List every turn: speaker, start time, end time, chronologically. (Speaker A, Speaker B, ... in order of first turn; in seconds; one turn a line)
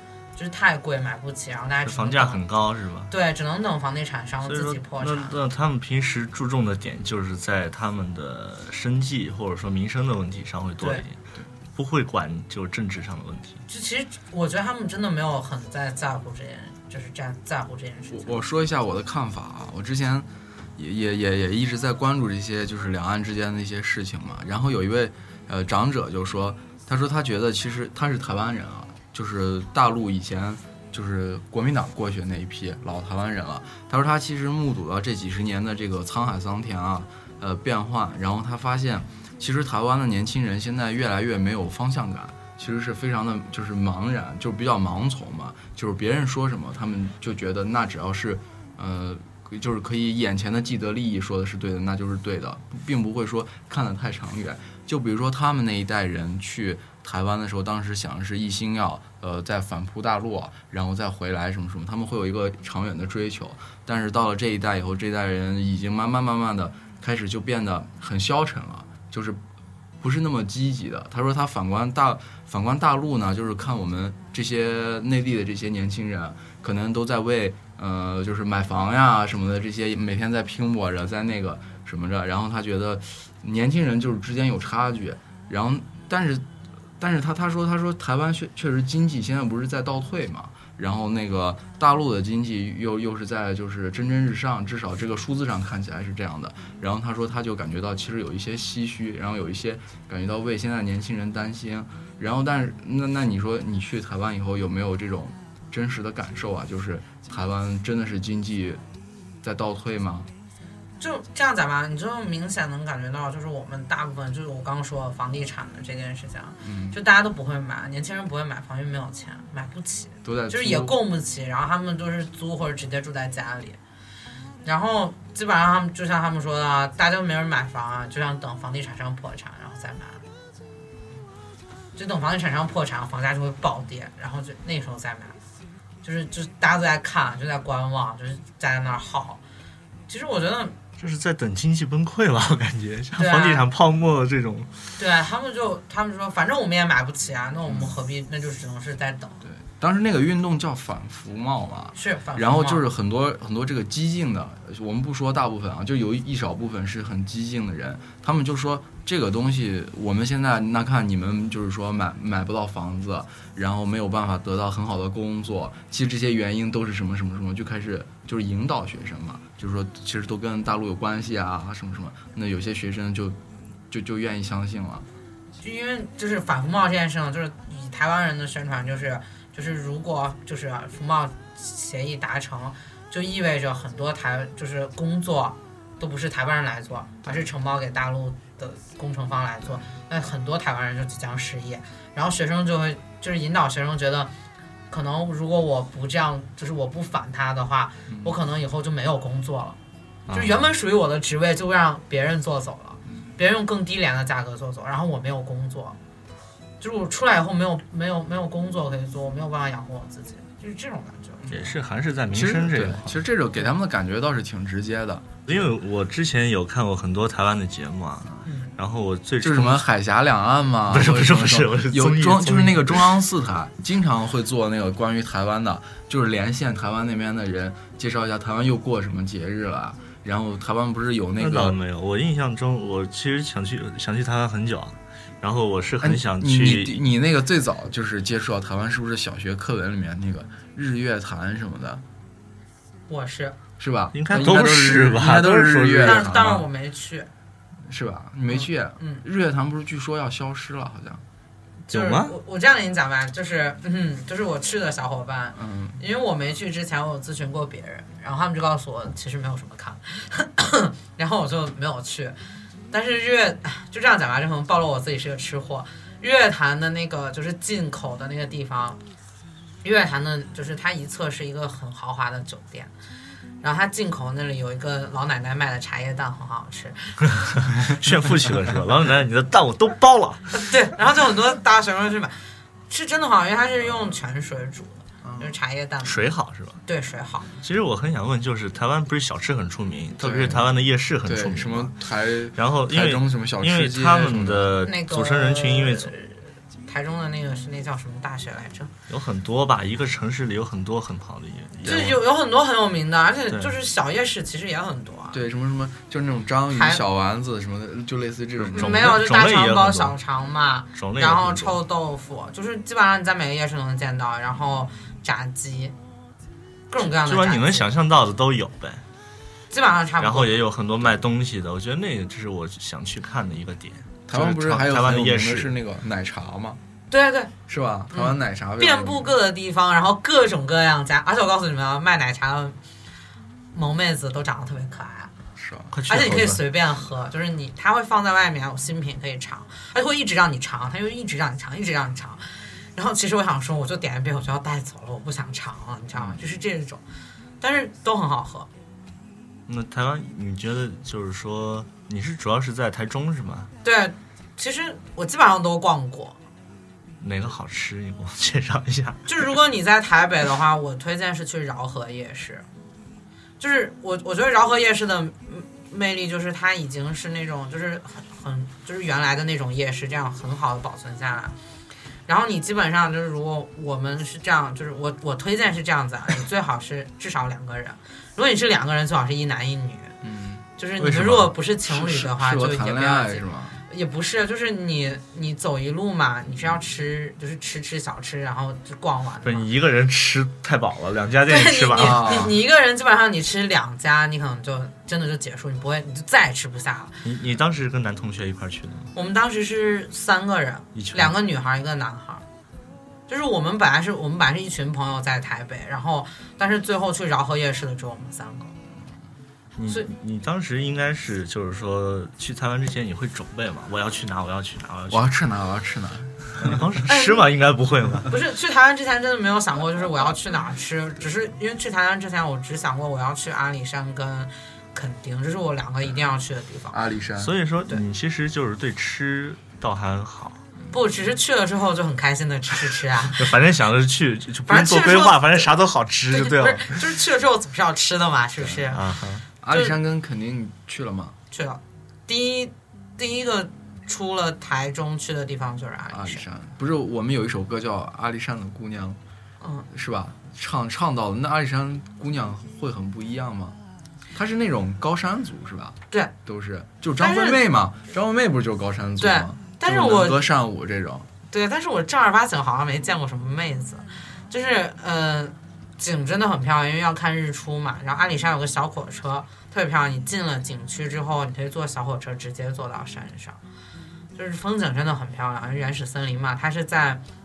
Speaker A: 0.3-2.4
Speaker B: 1.8-3.1
Speaker A: 3.1-5.3
Speaker B: 4.4-11.2
Speaker B: 11.7-13.6
Speaker A: 13.7-18.4
Speaker C: 18.1-69.4
Speaker C: 70.0-86.5
Speaker C: 87.0-108.8
Speaker C: 109.4-110.3
Speaker A: 111.0-123.8
Speaker C: 116.6-117.0
Speaker C: 120.2-121.0
Speaker A: 124.6-130.2
Speaker A: 131.9-135.3
Speaker A: 136.0-139.4
Speaker A: 140.1-140.8
Speaker B: 141.0-144.8
Speaker A: 143.2-143.6
Speaker A: 145.0-149.4
Speaker C: 147.7-147.9
Speaker C: 149.4-173.4
Speaker A: 151.9-152.8
Speaker C: 173.9-175.1
Speaker A: 175.6-194.3
Speaker A: 194.9-199.8
Speaker C: 198.1-198.3
Speaker B: 200.3-200.6
Speaker A: 200.3-206.0
Speaker A: 206.8-211.5
Speaker C: 211.4-211.7
Speaker B: 211.5-213.2
Speaker C: 212.3-215.4
Speaker B: 215.5-219.8
Speaker A: 218.4-218.7
Speaker C: 219.4-231.8
Speaker B: 220.9-223.1
Speaker B: 231.4-237.0
Speaker C: 236.0-242.0
Speaker A: 243.1-243.6
Speaker C: 243.8-246.6
Speaker B: 244.1-246.3
Speaker A: 246.0-247.3
Speaker C: 247.8-251.2
Speaker A: 248.5-249.2
Speaker A: 251.9-262.4
Speaker B: 251.9-252.3
Speaker C: 255.6-256.0
Speaker A: 262.9-269.0
Speaker A: 269.8-272.9
Speaker A: 273.6-277.1
Speaker B: 277.6-280.5
Speaker A: 280.5-282.3
Speaker A: 282.9-286.3
Speaker C: 285.2-285.5
Speaker B: 286.0-286.8
Speaker A: 286.9-287.5
Speaker B: 287.6-291.9
Speaker C: 290.2-290.7
Speaker C: 291.2-294.7
Speaker B: 292.6-296.1
Speaker A: 294.8-298.9
Speaker B: 299.1-302.2
Speaker A: 301.8-305.4
Speaker C: 305.3-309.2
Speaker A: 306.7-307.0
Speaker B: 308.6-310.1
Speaker A: 308.7-315.9
Speaker B: 310.9-311.8
Speaker A: 316.9-317.9
Speaker B: 317.0-319.0
Speaker A: 319.7-320.5
Speaker B: 320.2-325.7
Speaker C: 324.3-326.8
Speaker A: 327.1-327.5
Speaker C: 327.7-329.3
Speaker A: 328.1-332.8
Speaker A: 333.7-335.3
Speaker C: 335.6-335.9
Speaker B: 335.9-336.6
Speaker A: 336.1-342.4
Speaker A: 342.9-347.0
Speaker A: 347.6-348.7
Speaker B: 349.7-353.7
Speaker A: 353.8-356.4
Speaker B: 357.2-359.3
Speaker A: 359.3-362.6
Speaker A: 363.6-371.5
Speaker A: 372.3-380.1
Speaker C: 380.2-380.6
Speaker A: 380.8-389.7
Speaker B: 381.0-381.5
Speaker C: 381.8-383.8
Speaker B: 389.4-392.5
Speaker A: 391.5-397.2
Speaker C: 391.9-392.5
Speaker B: 397.2-399.1
Speaker A: 399.1-402.4
Speaker B: 400.9-401.3
Speaker A: 403.3-408.7
Speaker B: 409.8-415.3
Speaker C: 415.1-416.8
Speaker B: 416.6-418.3
Speaker A: 417.1-417.4
Speaker A: 418.3-427.0
Speaker C: 426.9-427.5
Speaker B: 427.4-430.6
Speaker A: 430.9-433.5
Speaker B: 433.4-437.0
Speaker A: 434.7-435.7
Speaker A: 436.3-439.0
Speaker B: 438.9-439.4
Speaker C: 439.6-441.3
Speaker A: 441.5-446.4
Speaker C: 446.1-449.2
Speaker A: 449.6-449.9
Speaker C: 449.9-453.8
Speaker C: 454.3-461.3
Speaker A: 457.2-457.6
Speaker A: 459.2-460.4
Speaker A: 461.5-473.6
Speaker A: 474.3-477.2